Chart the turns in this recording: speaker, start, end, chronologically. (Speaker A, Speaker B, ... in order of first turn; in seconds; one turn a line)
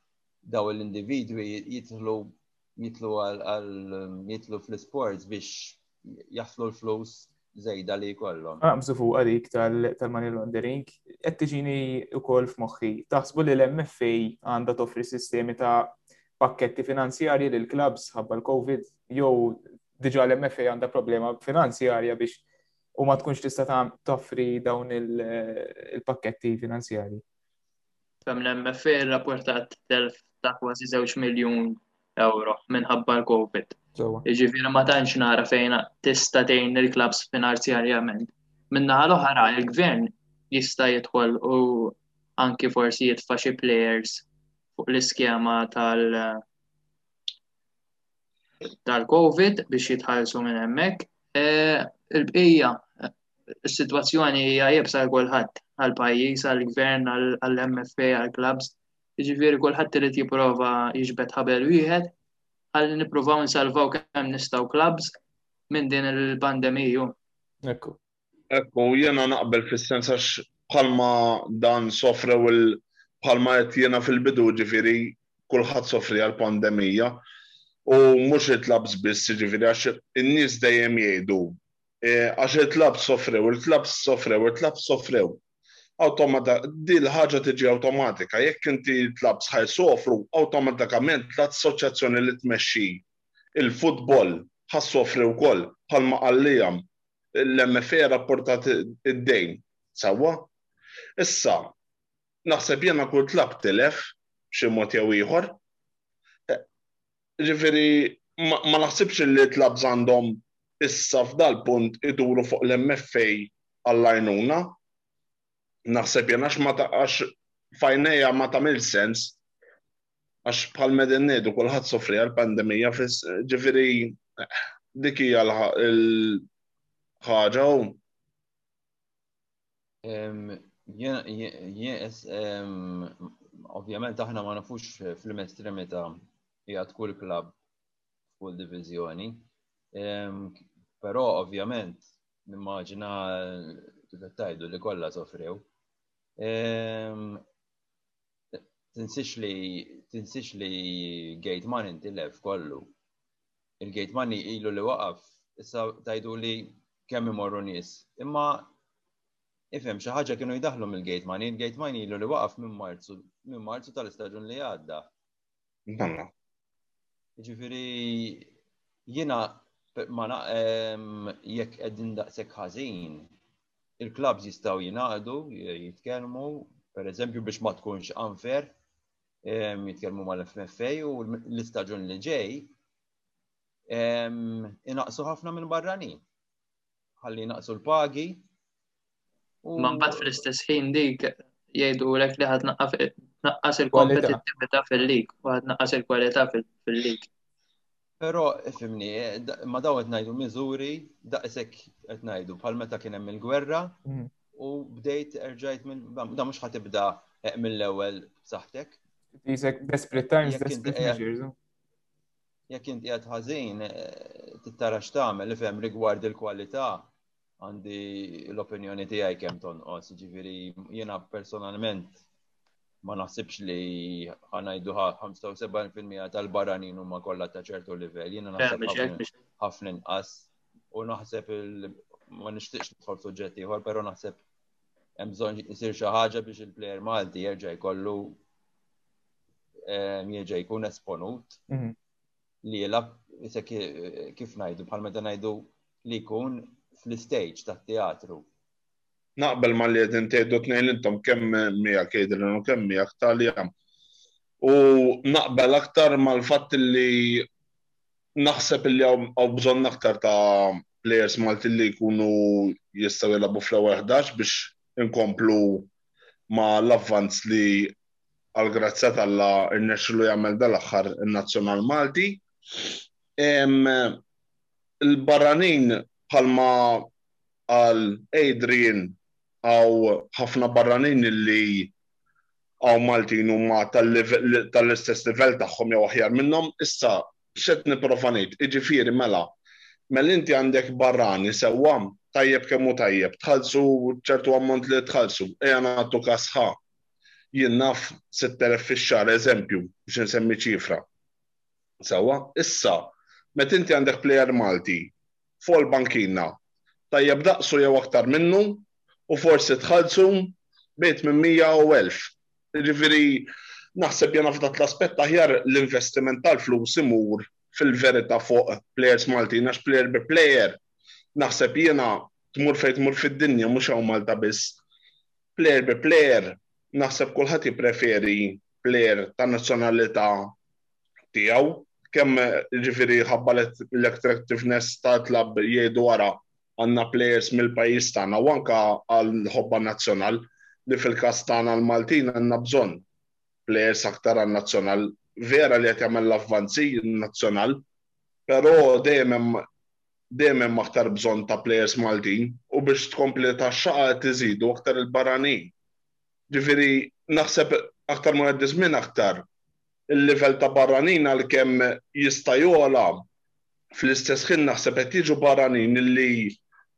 Speaker A: 0.5-8.6
Speaker B: 8.6-22.4
Speaker B: 23.0-27.2
Speaker C: 28.2-44.2
Speaker B: 34.0-34.2
Speaker C: 44.8-46.4
Speaker C: 48.8-53.1
Speaker C: 53.6-62.1
Speaker C: 62.7-65.1
Speaker C: 65.7-67.1
Speaker B: 67.6-68.0
Speaker D: 68.5-77.2
Speaker D: 77.8-85.4
Speaker D: 86.0-93.0
Speaker D: 93.5-100.5
Speaker D: 101.2-101.7
Speaker D: 102.5-105.5
Speaker D: 107.4-114.8
Speaker D: 115.9-119.4
Speaker D: 120.4-126.4
Speaker D: 127.2-128.0
Speaker A: 130.0-136.2
Speaker A: 136.7-137.6
Speaker A: 138.3-145.7
Speaker A: 146.4-147.4
Speaker A: 148.5-152.9
Speaker A: 153.8-158.7
Speaker A: 159.7-165.1
Speaker D: 165.9-166.3
Speaker A: 167.4-168.5
Speaker A: 169.1-173.3
Speaker A: 174.0-178.7
Speaker A: 179.4-182.7
Speaker A: 183.9-186.2
Speaker A: 187.2-188.4
Speaker A: 189.6-190.4
Speaker C: 189.8-197.3
Speaker B: 193.9-194.4
Speaker A: 198.2-204.0
Speaker A: 204.5-209.0
Speaker B: 209.4-211.5
Speaker A: 210.4-211.2
Speaker A: 212.7-222.2
Speaker A: 223.0-234.4
Speaker C: 228.6-229.3
Speaker A: 235.2-238.4
Speaker A: 239.8-241.6
Speaker B: 241.7-241.9
Speaker A: 242.6-248.5
Speaker D: 249.4-253.7
Speaker D: 254.6-257.5
Speaker D: 258.4-265.9
Speaker D: 266.5-267.9
Speaker D: 268.5-272.4
Speaker D: 273.4-274.2
Speaker D: 275.0-277.1
Speaker D: 277.7-281.9
Speaker D: 282.8-289.5
Speaker D: 290.1-296.8
Speaker D: 297.5-301.0
Speaker D: 302.0-306.6
Speaker D: 307.1-320.8
Speaker D: 321.3-324.8
Speaker D: 325.6-330.5
Speaker D: 331.3-343.0
Speaker D: 343.7-347.8
Speaker D: 348.5-349.6
Speaker D: 350.3-355.7
Speaker D: 356.5-359.4
Speaker D: 360.1-363.2
Speaker D: 363.9-366.6